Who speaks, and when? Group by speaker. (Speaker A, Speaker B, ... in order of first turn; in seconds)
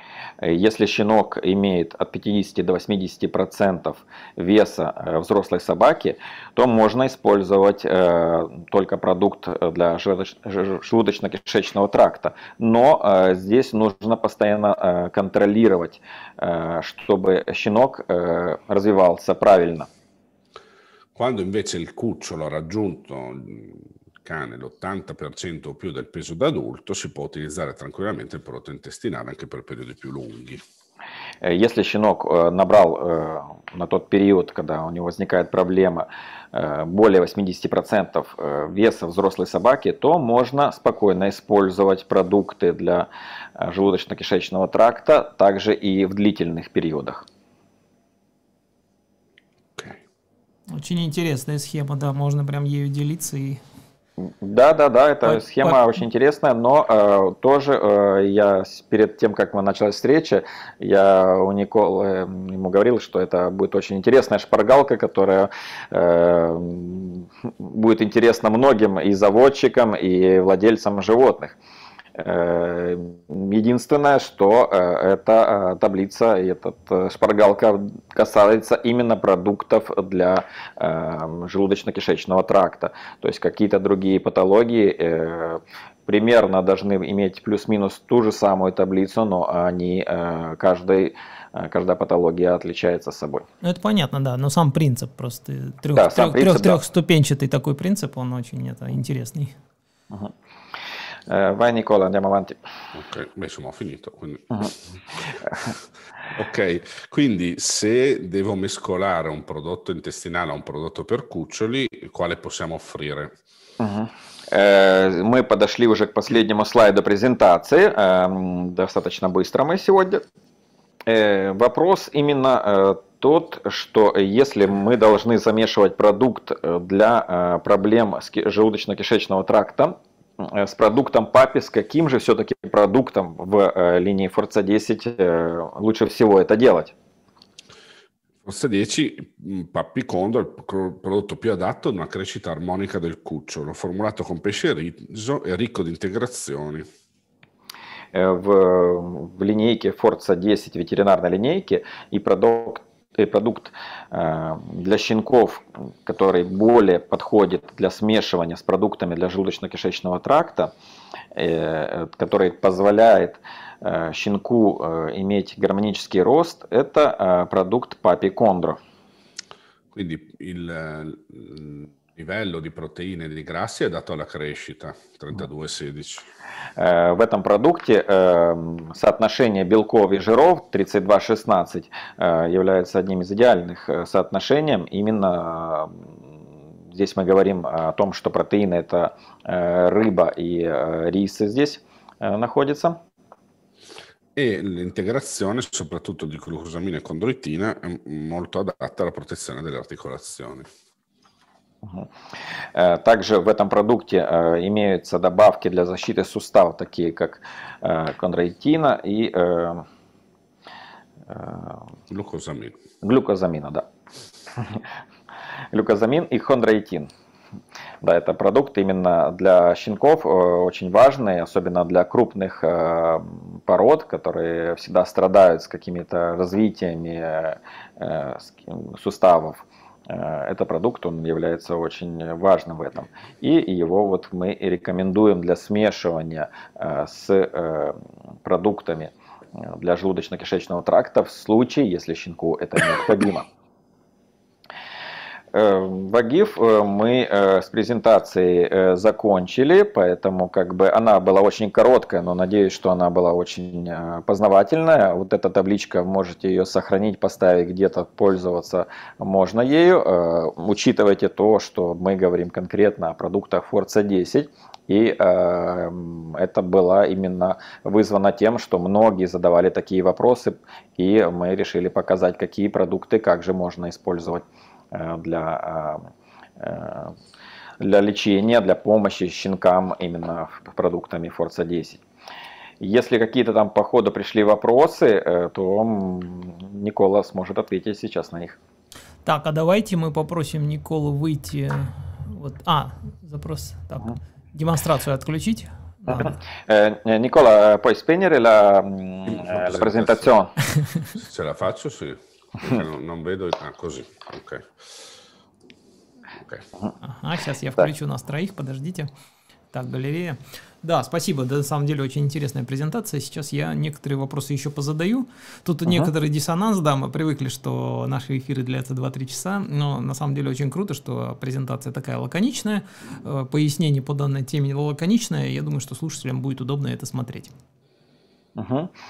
Speaker A: 0.4-19.9, 31.4-47.2, 54.2-71.6, 72.1-93.4, 95.9-96.8, 101.3-102.6, 113.8-120.2, 121.0-136.9, 148.1-160.7, 161.3-168.8, 176.8-186.1, 186.9-193.0, 201.8-202.1, 202.7-209.8, 211.3-211.9, 213.0-213.8, 215.7-217.1, 218.0-243.5, 245.5-277.1, 277.8-282.0, 282.8-288.6, 296.1-300.5, 328.6-328.9
Speaker B: 21.1-30.6, 102.9-104.7, 106.3-113.3, 138.4-146.9, 169.9-176.2, 194.3-200.7, 212.1-212.8, 299.2-300.3, 301.1-304.7, 306.4-306.6
Speaker C: 50.7-53.6, 93.6-99.5, 289.2-296.3, 307.0-309.1, 309.7-327.5